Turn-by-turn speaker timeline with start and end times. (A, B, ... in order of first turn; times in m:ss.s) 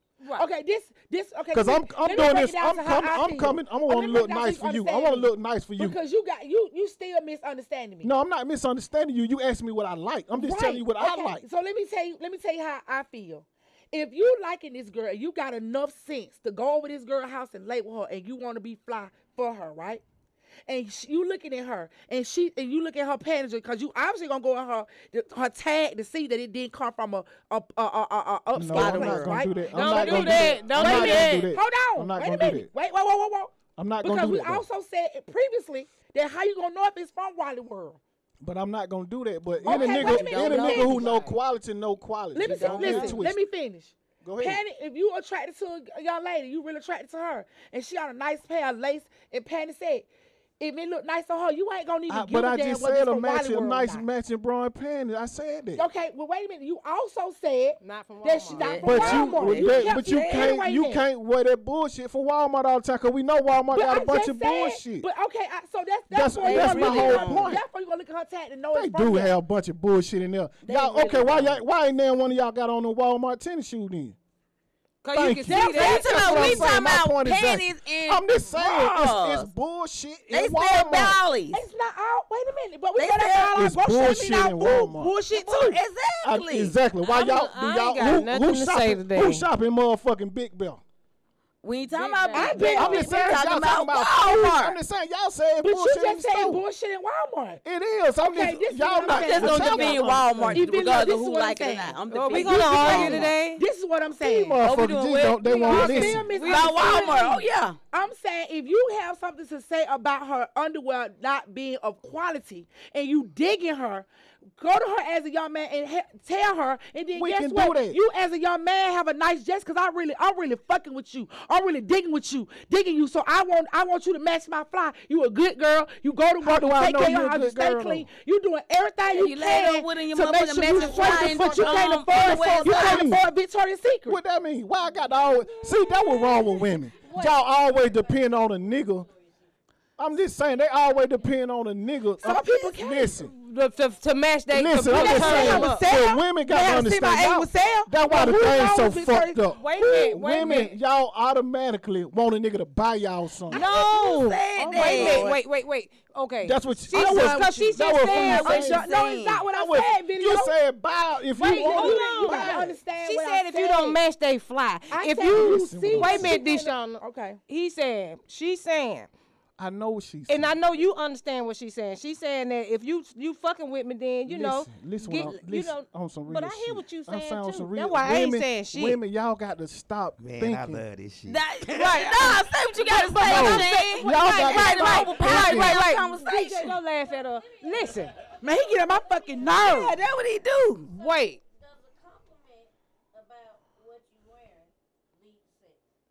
0:00.2-0:00.5 A
0:00.3-0:08.1 B
0:01.5-0:06.0 C
0:08.0-0:11.4 C
0:10.3-0:20.0 B
0:20.7-0:38.0 B
0:28.5-0:32.7 C
0:28.7-0:29.5 D
0:29.7-0:31.5 A
0:33.8-0:34.6 C
0:38.4-0:43.4 C
0:39.6-0:41.2 D
0:39.6-0:41.1 B
0:41.0-0:41.3 A
0:42.3-0:50.1 B
0:42.4-0:43.2 D
0:44.2-0:44.6 C
0:50.6-0:54.0 B
0:52.1-0:55.8 C
0:55.7-1:01.0 B
0:57.8-0:58.8 A
0:58.5-1:00.6 D
0:58.8-1:05.1 C
1:03.7-1:09.3 B
1:06.1-1:07.6 C
1:06.4-1:07.5 D
1:08.7-1:14.2 C
1:10.6-1:11.6 D
1:15.0-1:16.7 A
1:15.1-1:21.2 C
1:15.5-1:19.5 D
1:15.5-1:16.4 B
1:20.3-1:21.6 D
1:21.5-1:25.8 B
1:23.0-1:23.6 D
1:23.5-1:25.1 C
1:25.3-1:26.7 D
1:26.2-1:30.8 C
1:27.0-1:29.5 A
1:31.6-1:34.8 D
1:31.9-1:33.0 A
1:32.3-1:33.4 B
1:32.8-1:36.6 C
1:35.6-1:37.6 B
1:37.6-1:40.7 C
1:38.2-1:44.6 B
1:39.1-1:43.3 D
1:42.1-1:43.6 A
1:42.8-1:43.3 C
1:44.2-1:46.3 C
1:44.6-1:47.8 D
1:45.4-1:54.1 B
1:46.2-1:47.3 A
1:54.6-2:14.2 B
1:57.1-1:58.0 C
2:06.4-2:08.1 C
2:09.1-2:13.1 D
2:10.7-2:13.2 C
2:14.1-2:19.1 C
2:14.8-2:19.5 E
2:20.0-2:23.3 C
2:22.2-2:23.2 B
2:23.2-2:25.8 A
2:23.8-2:24.1 E
2:24.5-2:33.6 C
2:24.9-2:30.1 B
2:29.5-2:30.7 A
2:33.5-2:35.4 D
2:33.5-2:38.6 A
2:34.5-2:35.3 B
2:36.4-2:38.9 C
2:36.9-2:40.5 B
2:38.1-2:39.4 D
2:39.5-2:42.8 C
2:41.4-2:44.0 B
2:41.4-2:49.1 A
2:44.9-2:47.4 B
2:45.3-2:46.4 C
2:49.6-2:50.5 C
2:50.3-2:59.0 A
2:54.2-3:00.8 C
3:00.2-3:02.4 F
3:01.3-3:06.8 D
3:01.8-3:08.1 A
3:03.2-3:05.8 C
3:06.6-3:10.0 E
3:08.4-3:10.0 B
3:09.5-3:10.9 D
3:10.9-3:15.8 E
3:10.9-3:11.4 A